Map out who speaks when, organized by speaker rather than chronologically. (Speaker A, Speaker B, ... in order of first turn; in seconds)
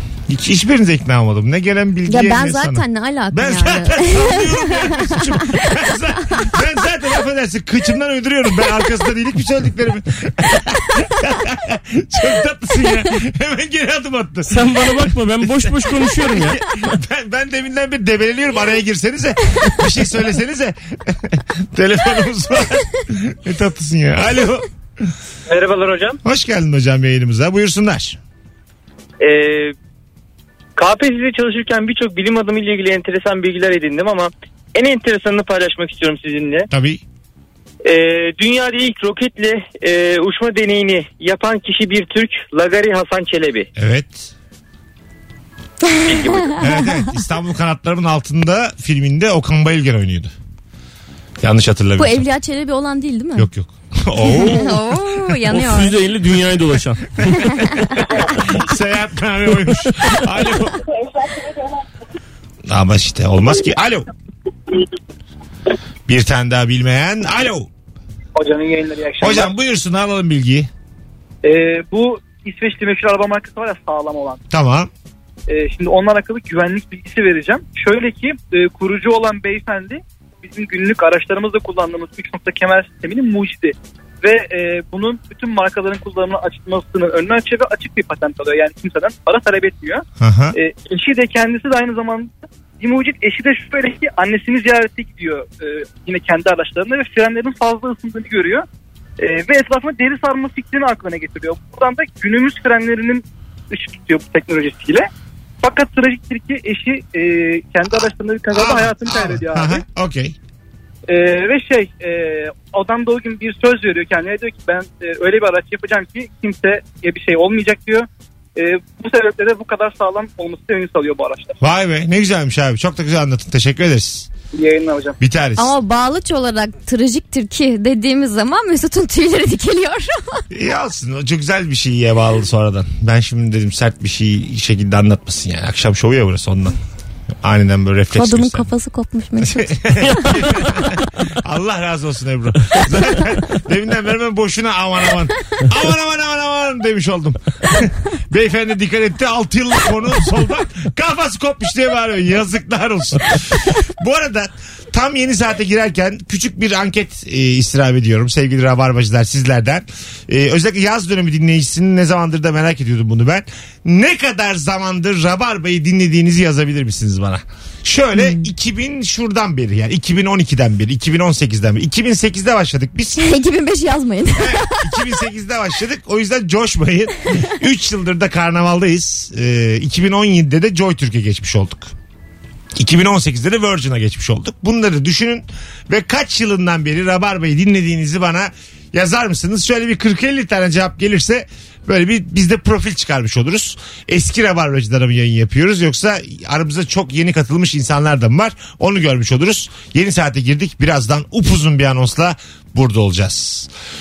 Speaker A: 0.3-25.1, 26.2-28.2, 36.7-37.0, 43.8-44.3, 46.6-50.3, 51.4-52.3, 53.4-55.4, 57.2-60.9, 62.7-64.1, 66.1-67.7, 69.2-70.7, 74.5-74.9, 90.2-90.6, 108.5-110.4, 121.6-124.3, 125.2-125.8, 130.5-136.8, 137.4-138.7, 139.4-173.4, 174.4-181.9, 182.8-203.7
Speaker B: 2.1-5.7, 45.8-47.1, 52.0-53.5, 54.2-56.0, 125.6-130.4, 138.1-141.0, 168.2-168.5, 173.2-175.0
Speaker C: 14.5-16.6, 55.5-57.4
Speaker D: 25.5-26.2, 29.2-29.7, 30.8-36.7, 37.8-43.7, 46.1-46.5
Speaker E: 68.4-69.5, 71.4-74.4, 75.5-98.7, 99.2-105.1, 105.6-109.8, 111.1-121.6, 124.5-125.2